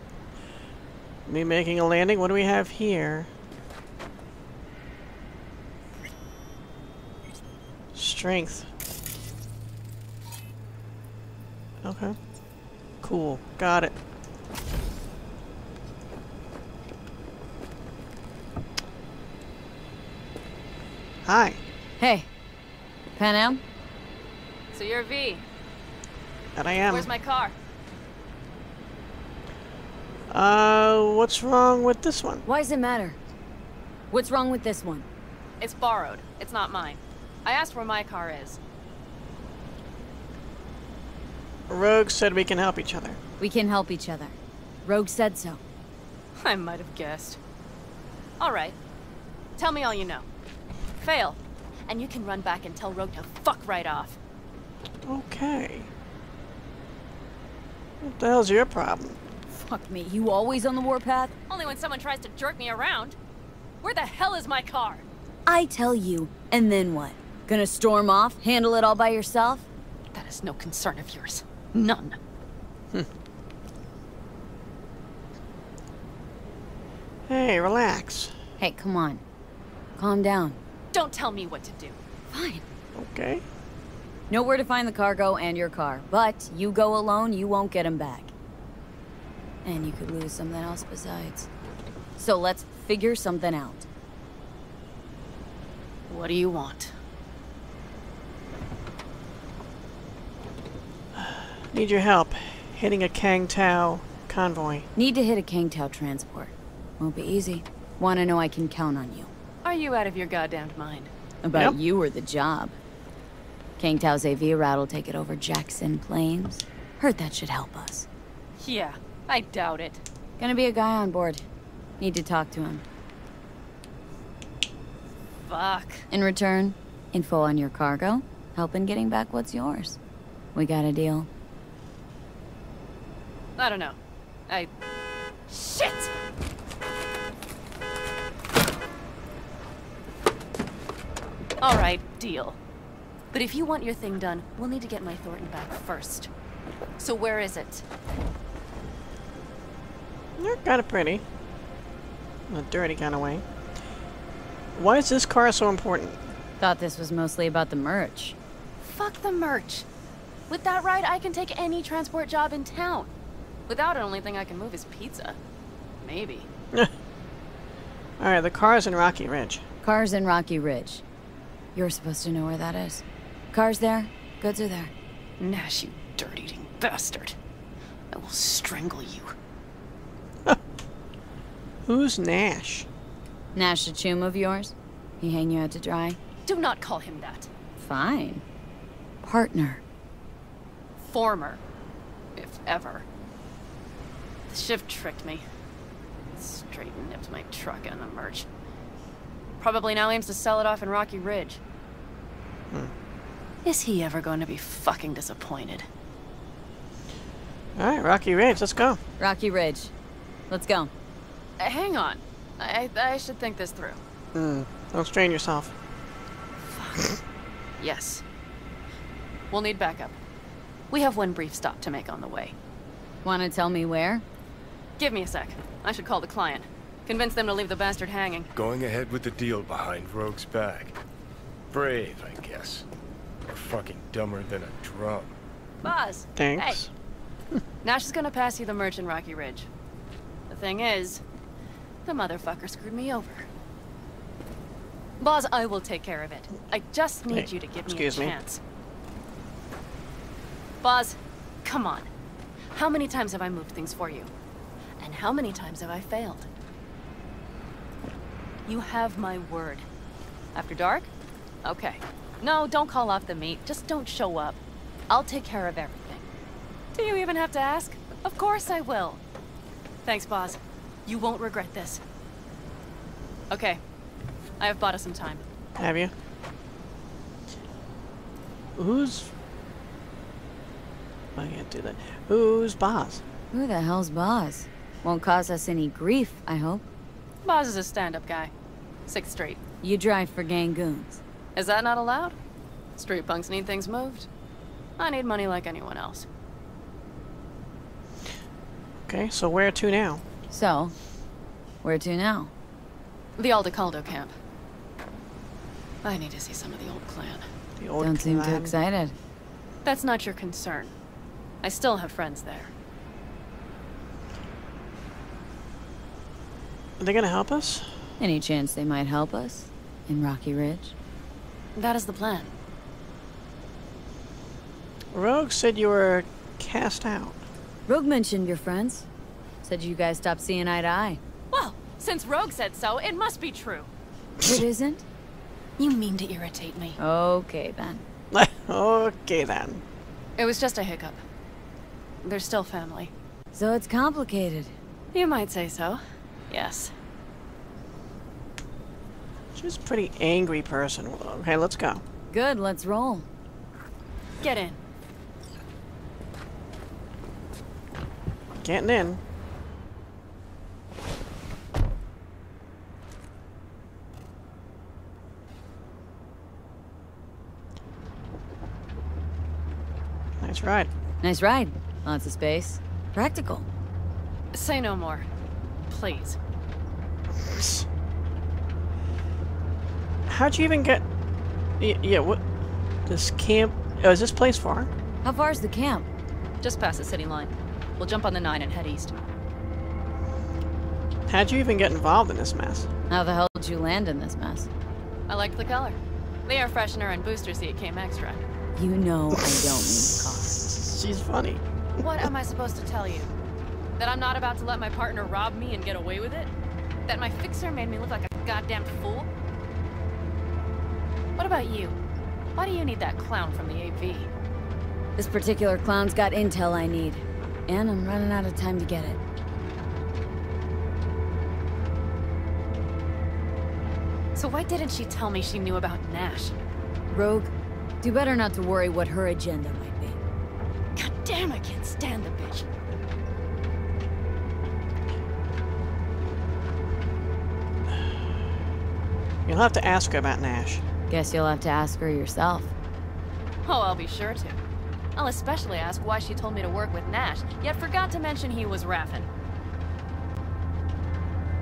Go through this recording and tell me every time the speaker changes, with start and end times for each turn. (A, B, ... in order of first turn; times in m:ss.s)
0:01.3-0:03.3 A
0:07.9-0:08.7 A
0:11.8-0:12.2 A
0:13.0-0:14.0 A
0:21.2-0:21.6 A
0:22.0-0:22.3 B
0:23.2-0:23.6 B
0:24.7-0:25.4 C
0:26.6-0:27.1 A
0:26.9-0:27.6 C
0:30.3-0:32.4 A
0:32.5-0:33.2 B
0:34.1-0:35.1 B
0:35.6-0:38.6 C
0:41.7-0:43.2 A
0:43.4-0:45.6 B
0:46.4-0:47.4 C
0:48.4-0:48.8 C
0:49.6-0:50.3 C
0:51.0-0:54.2 C
0:55.0-0:55.9 A
0:58.0-0:59.2 A
0:59.5-1:01.3 B
1:01.5-1:03.2 C
1:03.8-1:05.0 C
1:05.5-1:09.7 B
1:10.1-1:12.2 C
1:17.3-1:18.4 A
1:18.6-1:19.2 B
1:20.0-1:20.6 B
1:20.9-1:22.0 C
1:22.3-1:22.6 B
1:22.9-1:23.4 A
1:24.3-1:28.3 B
1:29.6-1:31.5 B
1:32.2-1:33.9 B
1:36.1-1:36.9 C
1:41.1-1:44.9 A
1:45.0-1:49.3 B
1:49.6-1:51.1 C
1:51.4-1:52.8 B
1:51.5-1:51.8 A
1:53.8-1:58.1 B
1:58.6-2:00.0 C
2:00.4-2:01.4 B
2:02.0-2:02.8 B
2:05.4-2:06.1 C
2:06.1-2:10.0 B
2:10.6-2:11.3 B
2:13.6-2:14.0 C
2:15.5-2:16.1 C
2:21.6-2:22.6 C
2:23.3-2:26.3 C
2:27.0-2:27.8 C
2:30.4-2:31.2 A
2:32.5-2:33.4 A
2:34.8-2:36.2 A
2:36.6-2:38.4 B
2:38.8-2:39.9 C
2:40.5-2:43.1 C
2:43.7-2:45.4 C
2:46.0-2:46.5 C
2:48.2-2:49.6 A
2:49.8-2:51.0 B
2:51.8-2:54.9 B
2:55.4-2:57.4 C
2:58.1-2:59.4 C
3:01.8-3:02.9 A
3:03.6-3:06.2 B
3:06.5-3:07.5 C
3:07.8-3:08.4 B
3:09.2-3:09.8 B
3:11.0-3:11.6 C
3:12.4-3:13.0 C
3:14.5-3:15.5 C
3:16.4-3:18.5 C
3:19.6-3:21.6 C
3:23.6-3:25.9 C
3:27.8-3:29.0 A
3:29.2-3:29.9 B
3:30.5-3:30.9 B
3:31.6-3:34.0 C
3:34.3-3:35.7 A
3:36.7-3:37.1 C
3:37.8-3:38.2 C
3:39.5-3:40.2 C
3:40.9-3:42.6 C
3:43.2-3:44.2 B
3:45.0-3:48.5 C
3:48.6-3:51.0 D
3:51.7-3:52.9 D
3:53.5-3:55.4 D
3:55.8-3:56.8 C
3:56.4-3:56.9 A
3:57.8-3:59.7 C
4:00.5-4:01.2 C
4:02.0-4:03.5 C
4:05.2-4:08.6 C
4:07.3-4:08.4 A
4:10.8-4:12.1 C
4:12.7-4:14.3 C
4:15.0-4:16.5 C
4:18.7-4:19.9 C
4:20.6-4:21.1 C
4:21.6-4:26.3 C
4:27.0-4:29.2 C
4:30.0-4:32.0 C
4:33.5-4:33.8 C
4:34.6-4:35.4 C
4:35.8-4:36.1 A
4:38.8-4:39.3 A
4:41.4-4:43.2 A
4:43.5-4:46.8 B
4:47.4-4:48.5 C
4:49.1-4:49.6 C
4:49.8-4:51.2 B
4:51.6-4:52.4 C
4:53.0-4:54.3 C
4:55.0-4:56.3 C
4:59.0-5:00.2 A
5:00.5-5:01.0 B
5:01.8-5:02.5 B
5:03.4-5:04.3 C
5:06.0-5:07.5 C
5:07.8-5:08.8 A
5:08.0-5:09.2 B
5:09.8-5:11.0 C
5:11.6-5:12.7 C
5:17.0-5:18.0 A
5:18.2-5:21.0 B
5:21.8-5:22.5 C
5:25.1-5:27.4 A
5:27.9-5:29.1 B
5:29.6-5:31.2 B
5:31.5-5:33.9 C
5:34.4-5:35.0 B
5:35.8-5:37.0 C
5:37.0-5:38.0 B
5:38.3-5:39.8 A
5:40.4-5:41.2 C
5:42.2-5:43.1 C
5:43.5-5:44.8 B
5:45.1-5:46.9 C
5:49.6-5:52.0 A
5:52.3-5:53.3 B
5:54.4-5:54.8 C
5:58.6-5:59.2 A
6:10.4-6:10.9 A
6:11.2-6:13.7 B
6:14.5-6:15.3 C
6:15.9-6:16.4 C
6:17.3-6:17.9 A
6:20.3-6:21.1 A
6:21.8-6:22.4 A
6:23.1-6:24.9 A
6:25.2-6:26.1 B
6:26.6-6:29.1 C
6:31.3-6:32.9 A
6:33.1-6:34.7 B
6:35.3-6:38.4 C
6:38.8-6:40.6 B
6:39.4-6:42.3 A
6:42.0-6:43.3 C
6:44.0-6:46.5 C
6:47.1-6:49.3 C
6:51.4-6:52.0 C
6:52.6-6:54.3 C
6:55.2-6:59.2 B
7:04.4-7:06.6 C
7:07.1-7:10.2 B
7:11.0-7:12.7 C
7:19.4-7:20.8 A
7:21.1-7:22.7 B
7:23.6-7:24.6 C
7:25.2-7:29.3 C